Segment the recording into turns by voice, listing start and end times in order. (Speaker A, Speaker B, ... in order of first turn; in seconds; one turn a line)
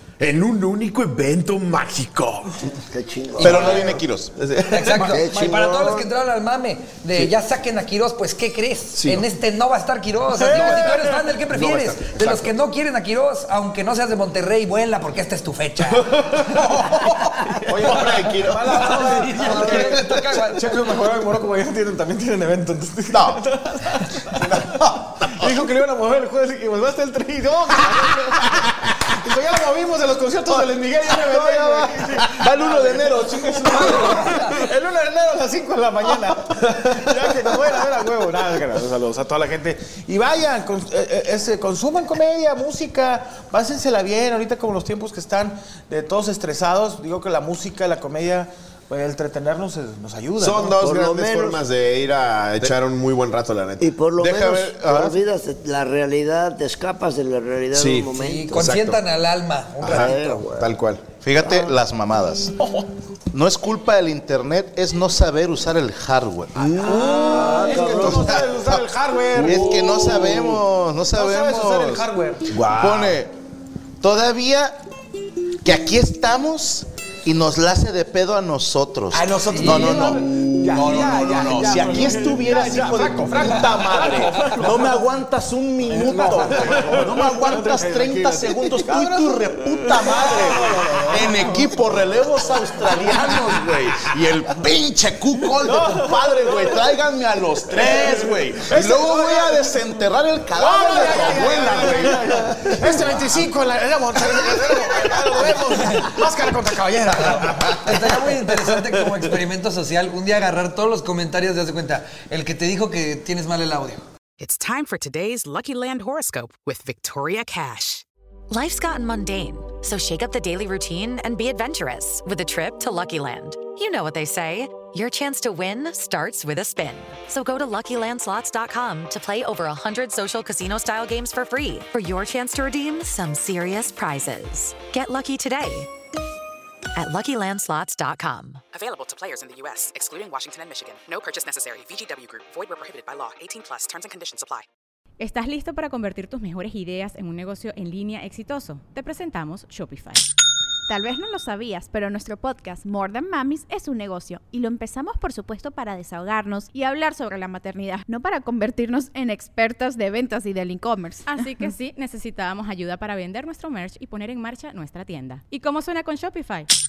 Speaker A: 0.2-2.7
Speaker B: 2.9-4.0
Speaker C: 3.4-4.0
Speaker D: 3.4-4.3
Speaker A: 4.4-5.1
Speaker C: 4.7-20.9
Speaker B: 5.1-6.1
Speaker A: 8.9-9.3
Speaker E: 10.4-11.3
Speaker A: 10.6-10.9
Speaker A: 11.4-12.6
Speaker A: 15.9-20.3
Speaker E: 16.7-17.0
Speaker E: 17.6-50.8
Speaker D: 23.1-23.4
Speaker D: 24.3-25.5
Speaker D: 31.1-34.3
Speaker A: 50.4-53.9
Speaker B: 50.8-51.6
Speaker B: 53.8-58.7
Speaker D: 54.2-55.2
Speaker A: 57.7-59.0
Speaker C: 58.1-60.3
Speaker A: 59.8-61.0
Speaker B: 59.9-60.7
Speaker D: 61.2-62.5
Speaker B: 61.4-61.7
Speaker E: 62.6-62.9
Speaker D: 63.3-66.7
Speaker E: 66.6-70.3
Speaker B: 66.6-68.5
Speaker D: 67.4-68.7
Speaker D: 69.3-73.3
Speaker A: 69.5-70.5
Speaker E: 71.1-72.7
Speaker A: 72.6-73.2
Speaker D: 74.0-74.8
Speaker D: 75.6-102.2
Speaker E: 79.1-85.1
Speaker C: 79.6-80.0
Speaker E: 85.8-94.1
Speaker E: 95.4-96.9
Speaker E: 97.7-99.8
Speaker E: 100.5-108.0
Speaker D: 104.4-105.6
Speaker C: 107.8-114.0
Speaker F: 114.4-118.0
Speaker G: 118.5-135.9
Speaker G: 136.9-138.6
Speaker F: 138.7-144.7
Speaker H: 145.2-150.2
Speaker I: 150.9-161.6
Speaker H: 161.2-166.7